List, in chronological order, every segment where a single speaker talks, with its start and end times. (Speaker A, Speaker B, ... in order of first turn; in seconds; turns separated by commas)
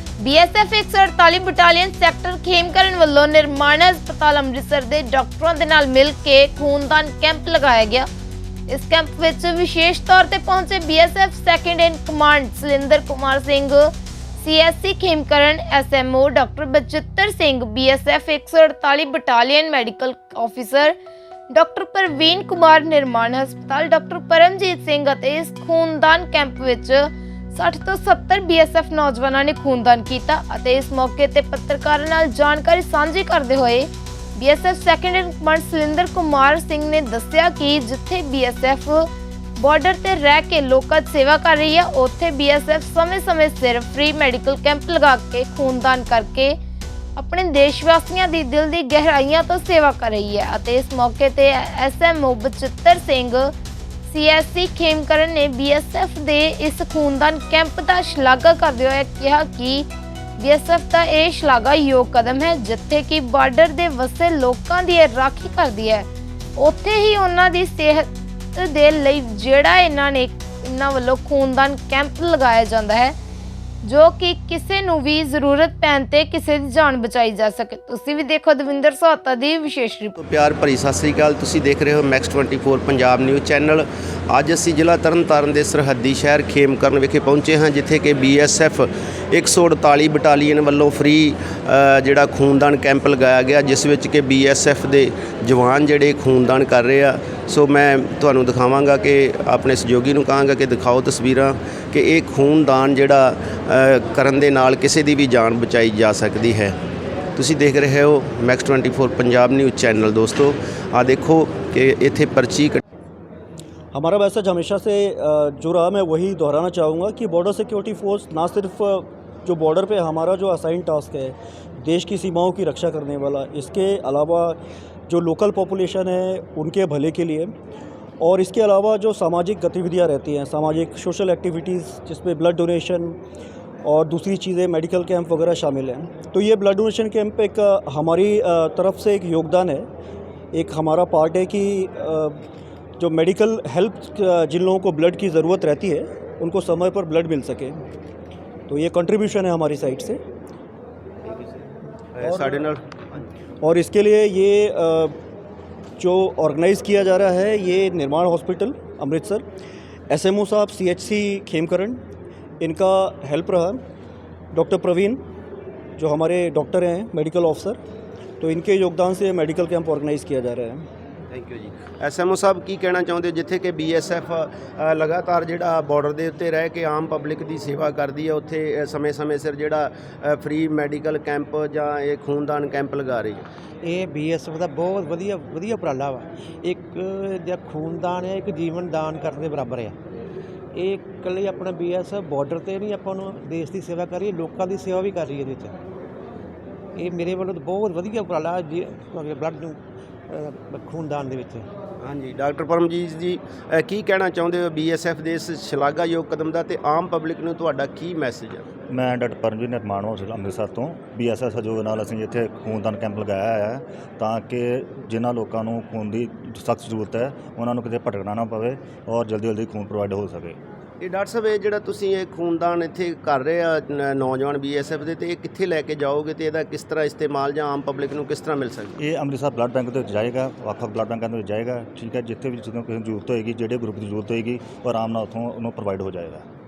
Speaker A: 0.2-8.1, Speaker A: 8.7-20.9, Speaker A: 21.5-46.6, Speaker A: 47.2-53.5, Speaker A: 54.1-59.9, Speaker A: 60.4-73.1, Speaker A: 73.8-80.2, Speaker B: 80.2-106.8, Speaker B: 107.4-112.8, Speaker C: 113.9-127.5, Speaker C: 128.2-133.2, Speaker C: 133.8-139.9, Speaker C: 140.5-142.4, Speaker C: 143.0-147.8, Speaker C: 148.7-150.2, Speaker B: 151.2-151.6, Speaker B: 152.2-153.2, Speaker C: 152.2-152.6, Speaker C: 153.6-155.2, Speaker C: 156.0-159.4, Speaker C: 160.1-162.0, Speaker C: 162.6-163.8, Speaker C: 164.5-165.2, Speaker C: 166.0-167.8, Speaker C: 168.4-170.8, Speaker B: 171.3-183.4, Speaker D: 183.8-189.9, Speaker D: 190.8-195.8, Speaker D: 197.0-199.8, Speaker D: 200.3-201.7, Speaker B: 202.0-208.7, Speaker E: 208.9-220.6, Speaker B: 221.0-229.0, Speaker E: 229.0-236.4